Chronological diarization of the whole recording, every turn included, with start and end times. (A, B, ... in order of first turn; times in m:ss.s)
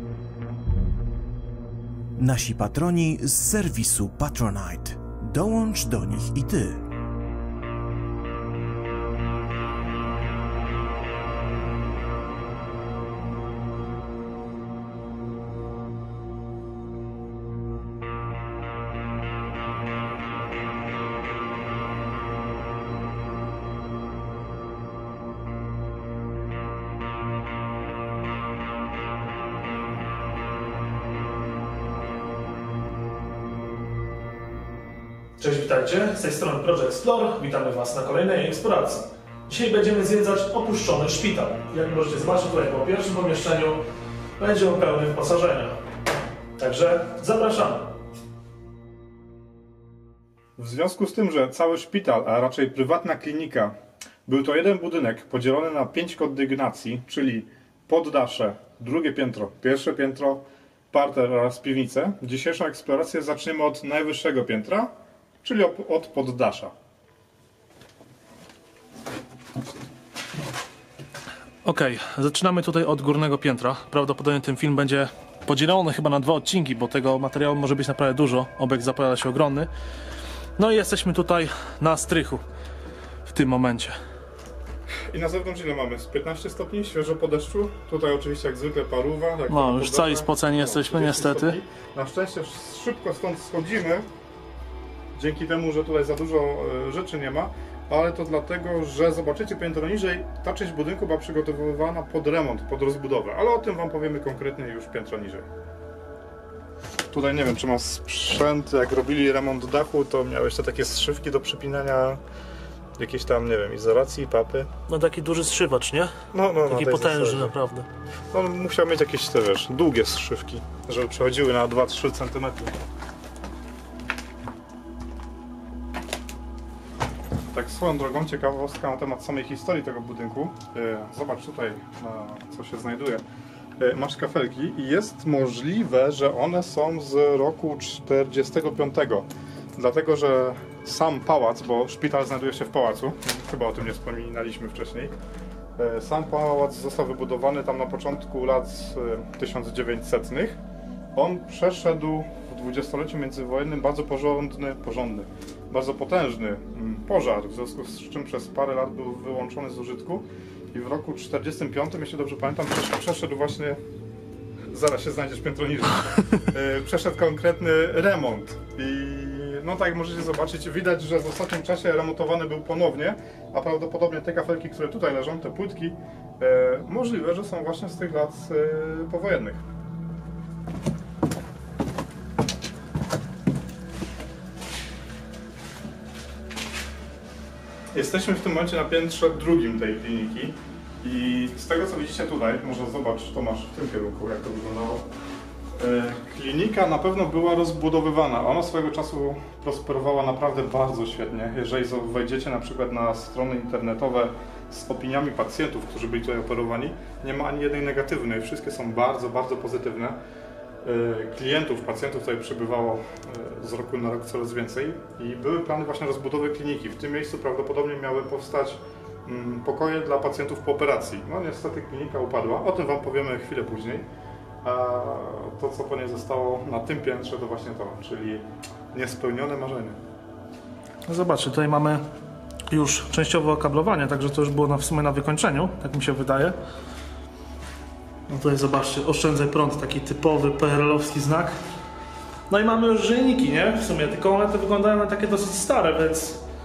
0:02.2-0:06.8 A
0:35.4-0:43.8 B
0:44.4-0:45.8 B
0:46.6-0:47.9 B
0:50.6-1:04.9 C
1:05.4-1:06.7 C
1:11.6-1:19.7 B
1:20.6-1:22.4 B
1:23.2-1:24.0 B
1:25.1-1:34.1 C
1:29.5-1:31.6 B
1:35.1-1:45.5 C
1:47.1-1:52.2 C
1:53.0-1:54.7 C
1:54.9-1:57.9 B
1:56.3-1:57.5 C
1:58.3-2:02.8 C
2:07.5-2:13.2 C
2:13.8-2:25.2 C
2:25.8-2:30.6 C
2:31.1-2:43.8 C
2:44.6-2:59.6 C
3:07.9-3:15.0 C
3:15.8-3:30.2 C
3:30.8-3:44.0 C
3:44.6-3:50.0 C
3:51.1-3:52.0 B
3:52.7-3:56.6 B
3:58.3-4:01.5 B
4:02.5-4:06.4 B